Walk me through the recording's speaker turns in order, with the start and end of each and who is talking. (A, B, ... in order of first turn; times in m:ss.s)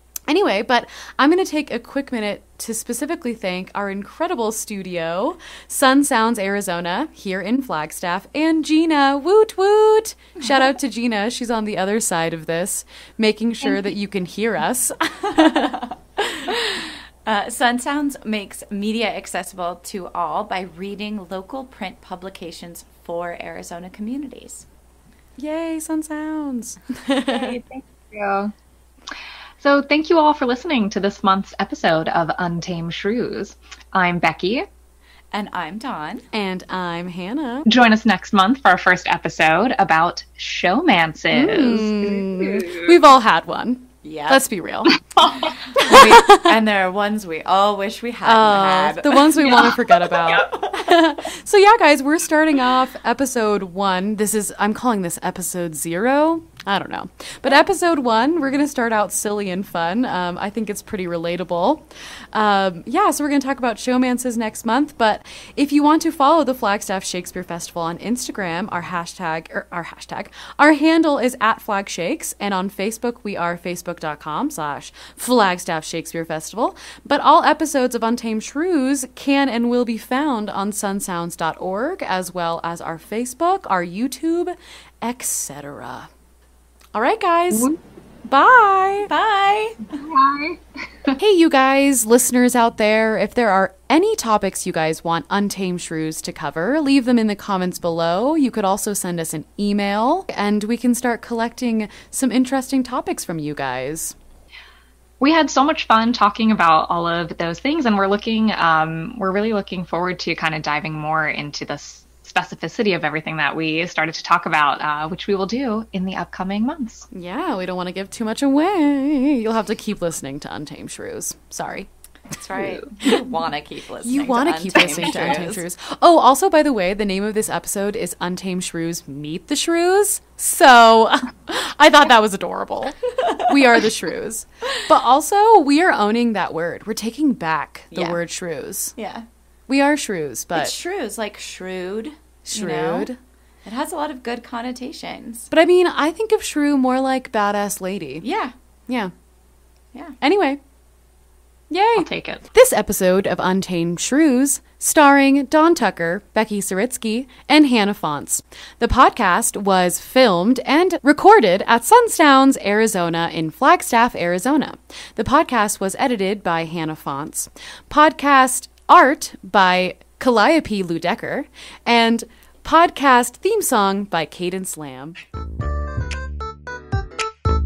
0:00.3-0:16.4 A
0:13.6-0:13.9 B
0:15.4-0:15.9 B
0:16.5-0:24.6 B
0:25.4-0:27.6 A
0:27.3-0:28.5 C
0:29.6-0:34.6 C
0:35.3-0:36.2 B
0:36.3-0:37.7 A
0:37.6-0:42.9 C
0:41.3-0:45.0 A
0:44.0-0:44.4 B
0:45.1-0:46.1 C
0:45.8-0:49.6 B
0:45.9-0:46.5 A
0:48.2-1:26.1 A
0:49.4-0:50.4 C
0:50.3-0:50.9 B
1:26.9-1:27.7 A
1:27.5-1:27.8 C
1:28.2-1:29.1 A
1:29.1-1:30.0 B
1:30.0-1:31.2 C
1:31.2-1:44.1 A
1:45.2-1:57.0 C
1:57.1-2:01.9 A
2:02.3-2:05.6 B
2:04.0-2:18.9 A
2:04.9-2:05.4 C
2:13.2-2:13.8 B
2:17.9-2:18.2 B
2:19.0-2:19.2 B
2:19.7-2:20.7 A
2:20.5-2:23.1 B
2:22.5-2:23.2 A
2:23.6-2:25.5 B
2:25.5-2:28.2 A
2:28.2-2:28.5 B
2:30.2-2:30.6 A
2:31.7-2:55.1 A
2:32.0-2:32.4 C